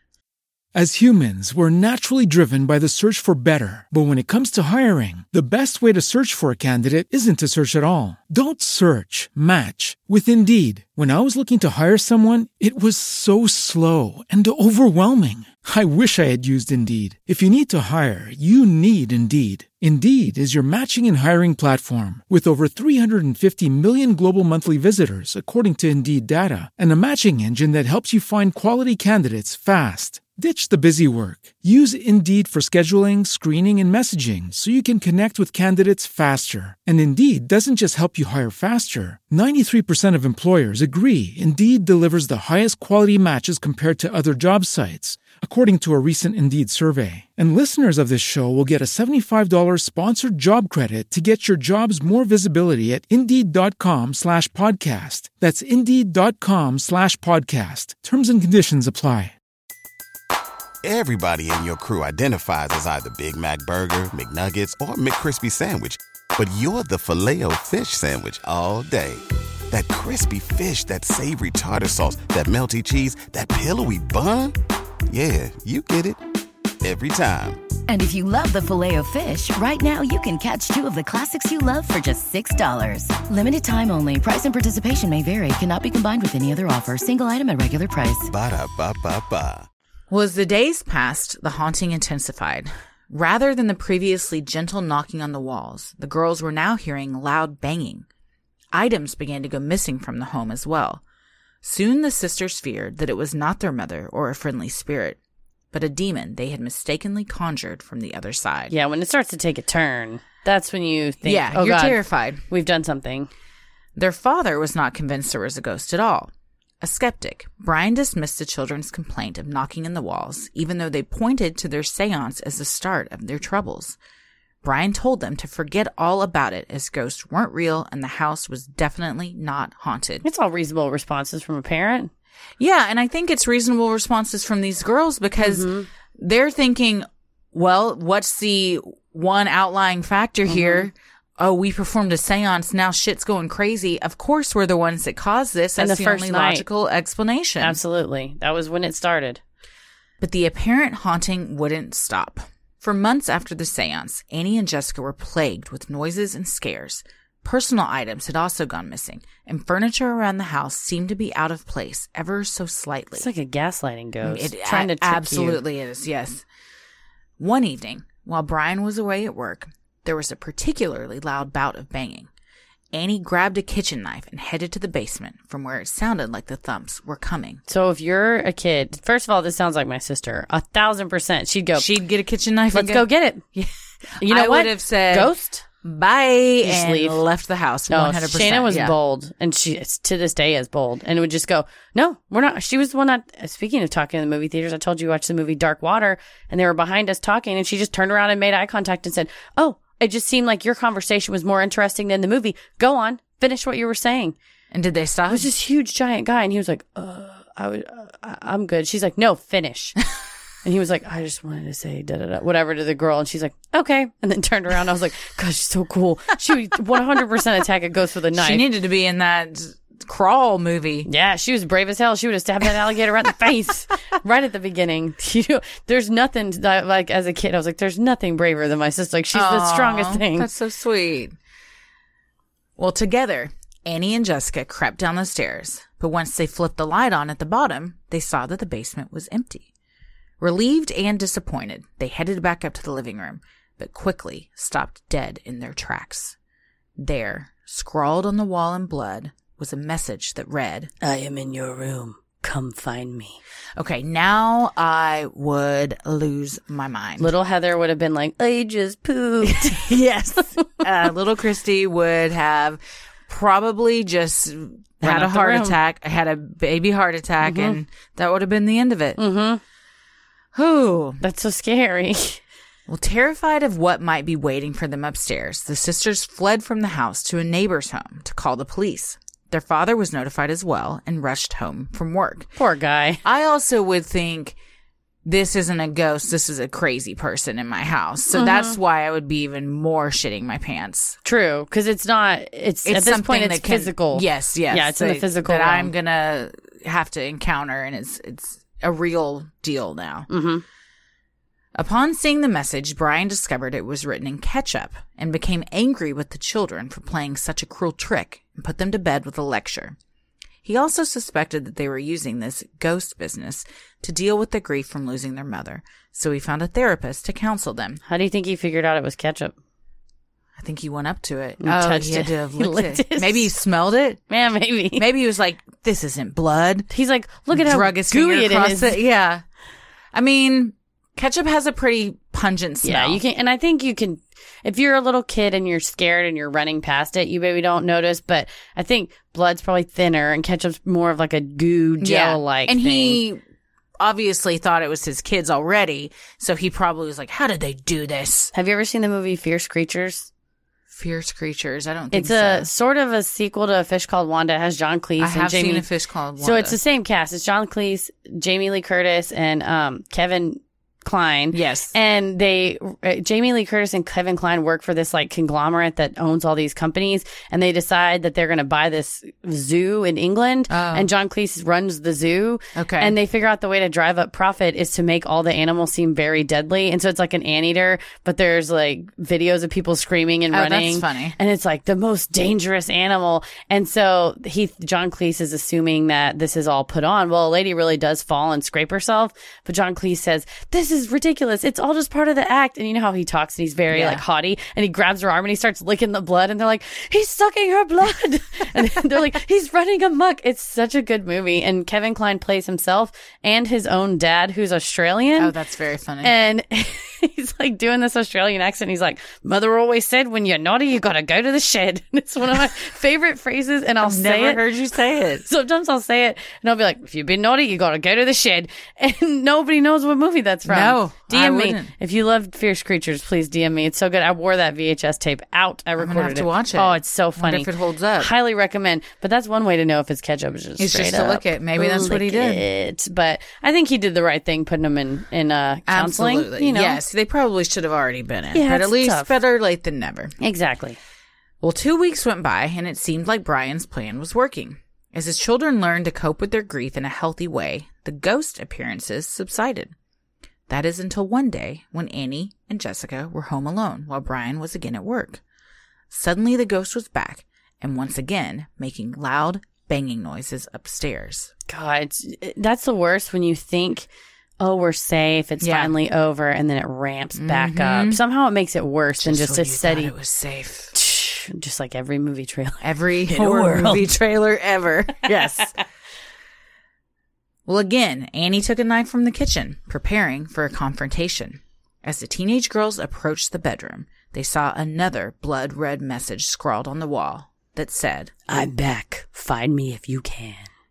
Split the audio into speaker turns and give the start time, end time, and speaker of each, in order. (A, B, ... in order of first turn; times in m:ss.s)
0:00.7-0:59.4 A
1:00.8-1:14.6 B
1:15.1-1:16.2 B
1:16.8-1:17.6 B
1:17.9-1:28.3 C
1:28.3-1:29.7 B
1:30.1-1:38.1 D
1:38.7-1:41.0 D
1:41.6-1:45.2 D
1:45.7-1:48.7 D
1:48.7-1:53.3 E
1:51.2-1:52.4 D
1:54.0-1:56.3 D
1:56.8-2:04.0 D
2:04.6-2:10.2 D
2:10.2-2:12.1 E
2:12.6-2:27.8 D
2:15.4-2:15.9 E
2:20.5-2:20.9 E
2:25.8-2:26.6 E
2:27.6-2:29.4 E
2:30.2-2:43.3 D
2:43.2-2:45.6 E
2:44.2-2:46.4 D
2:47.4-2:52.3 D
2:52.9-2:57.6 D
2:57.7-3:01.9 E
3:01.8-3:05.3 D
3:02.7-3:03.4 E
3:04.2-3:05.6 E
3:05.8-3:08.9 D
3:06.6-3:07.2 E
3:07.9-3:24.4 E
3:24.7-3:25.5 D
3:25.3-3:30.0 E
3:30.6-3:38.6 E
3:38.4-3:41.1 D
3:41.1-3:50.5 E
3:49.3-3:51.4 D
3:52.8-3:59.7 D
4:00.4-4:06.4 D
4:07.0-4:10.9 D
4:11.0-4:13.4 E
4:13.8-4:17.3 D
4:17.2-4:19.9 E
4:19.4-4:29.2 D
4:25.0-4:25.8 E
4:27.4-4:27.8 E
4:29.2-4:29.6 E
4:30.5-4:31.2 D
4:31.2-4:32.4 E
4:32.9-4:42.5 D
4:42.6-4:43.2 E
4:43.2-4:44.6 D
4:45.2-4:51.2 D
4:48.3-4:48.8 E
4:51.2-4:55.9 E
4:52.8-5:00.3 D
5:00.3-5:00.6 E
5:01.8-5:10.0 D
5:10.6-5:18.0 D
5:18.1-5:19.6 E
5:20.6-5:24.2 D
5:21.6-5:23.5 E
5:24.3-5:25.0 E
5:25.0-5:26.9 D
5:26.9-5:29.0 E
5:27.5-5:29.4 D
5:30.1-5:33.2 D
5:32.8-5:43.2 E
5:42.0-5:43.4 D
5:44.0-5:48.5 D
5:48.5-5:50.3 E
5:50.9-5:52.7 D
5:52.1-5:55.8 E
5:55.2-5:56.8 D
5:56.4-6:45.5 E
6:01.5-6:02.0 D
6:10.7-6:11.1 D
6:12.8-6:13.2 D
6:20.5-6:21.4 D
6:33.9-6:34.2 D
6:45.4-6:46.3 D
6:46.2-6:54.6 E
6:54.0-6:55.4 D
6:55.4-7:17.0 E
7:00.7-7:01.9 D
7:06.0-7:08.3 D
7:10.8-7:12.6 D
7:15.9-7:20.3 D
7:18.5-7:19.3 E
7:20.4-7:21.0 E
7:21.6-7:29.9 D
7:30.7-7:35.4 D
7:36.1-7:41.5 D
7:41.7-7:44.1 E
7:44.6-7:50.1 E
7:45.6-7:45.9 D
7:47.4-7:48.2 D
7:49.2-7:50.9 D
7:50.9-7:54.1 E
7:52.8-7:55.8 D
7:55.2-7:55.7 E
7:57.7-8:08.3 D
8:08.5-8:10.7 E